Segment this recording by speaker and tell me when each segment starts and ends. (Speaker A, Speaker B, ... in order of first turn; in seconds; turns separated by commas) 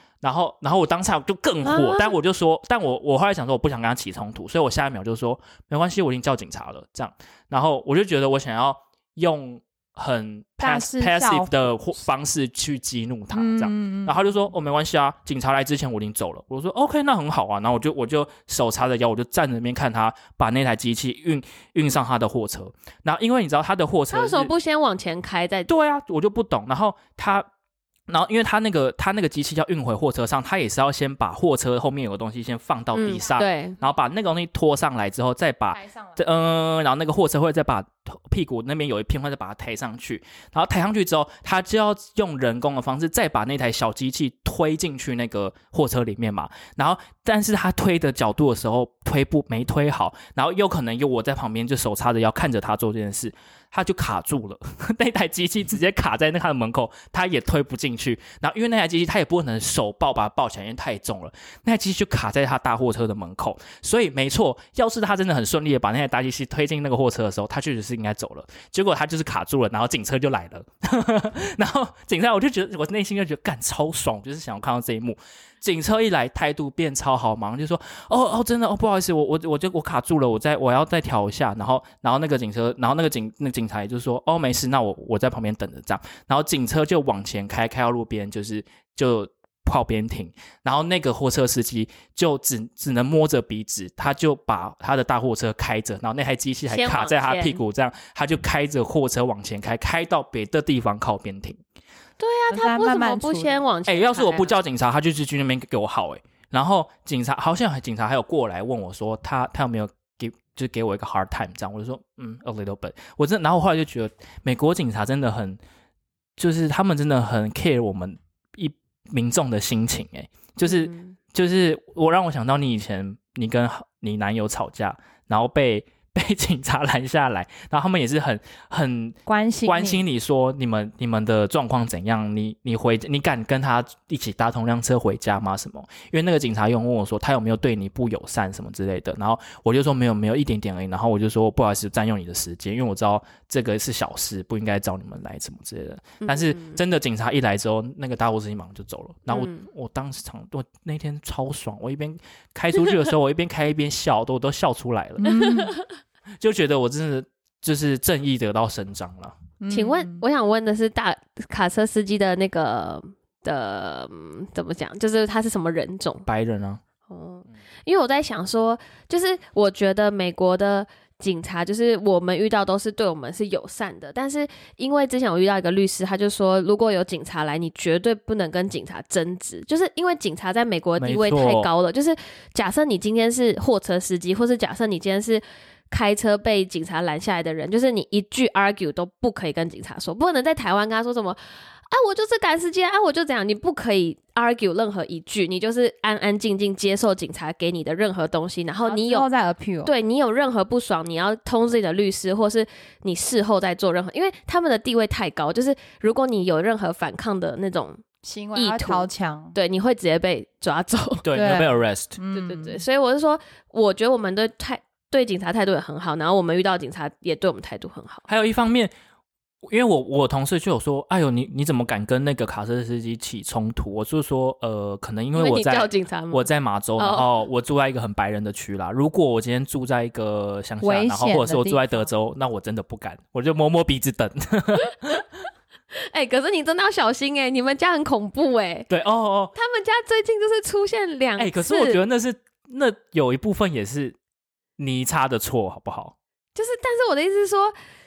Speaker A: 0.2-24.5, Speaker B: 1.6-2.1, Speaker C: 10.6-11.7, Speaker C: 13.3-14.2, Speaker B: 24.1-25.7, Speaker A: 25.7-27.5, Speaker A: 28.1-101.6, Speaker B: 32.9-33.8, Speaker C: 35.7-36.2, Speaker B: 96.7-97.6, Speaker B: 102.2-104.5, Speaker C: 102.5-103.6, Speaker A: 103.9-115.6, Speaker A: 116.4-155.3, Speaker B: 120.6-121.2, Speaker C: 129.2-130.0, Speaker B: 146.2-146.8, Speaker B: 149.3-149.7, Speaker C: 155.2-155.8, Speaker B: 155.3-155.8, Speaker A: 156.4-159.4, Speaker C: 159.6-160.2, Speaker B: 159.7-166.2, Speaker A: 166.2-166.8, Speaker B: 167.1-191.4, Speaker A: 181.0-181.7, Speaker B: 191.9-199.2, Speaker C: 198.8-199.9, Speaker B: 199.8-208.0, Speaker C: 208.2-209.5, Speaker B: 208.5-211.2, Speaker A: 211.2-212.2, Speaker C: 211.3-212.8, Speaker B: 212.3-218.3, Speaker A: 218.3-218.9, Speaker A: 219.6-235.2, Speaker B: 225.3-227.3, Speaker C: 230.8-232.1, Speaker B: 236.1-238.9, Speaker A: 238.9-239.5, Speaker B: 239.6-242.0, Speaker A: 241.4-244.2, Speaker A: 244.8-246.2, Speaker B: 246.5-247.7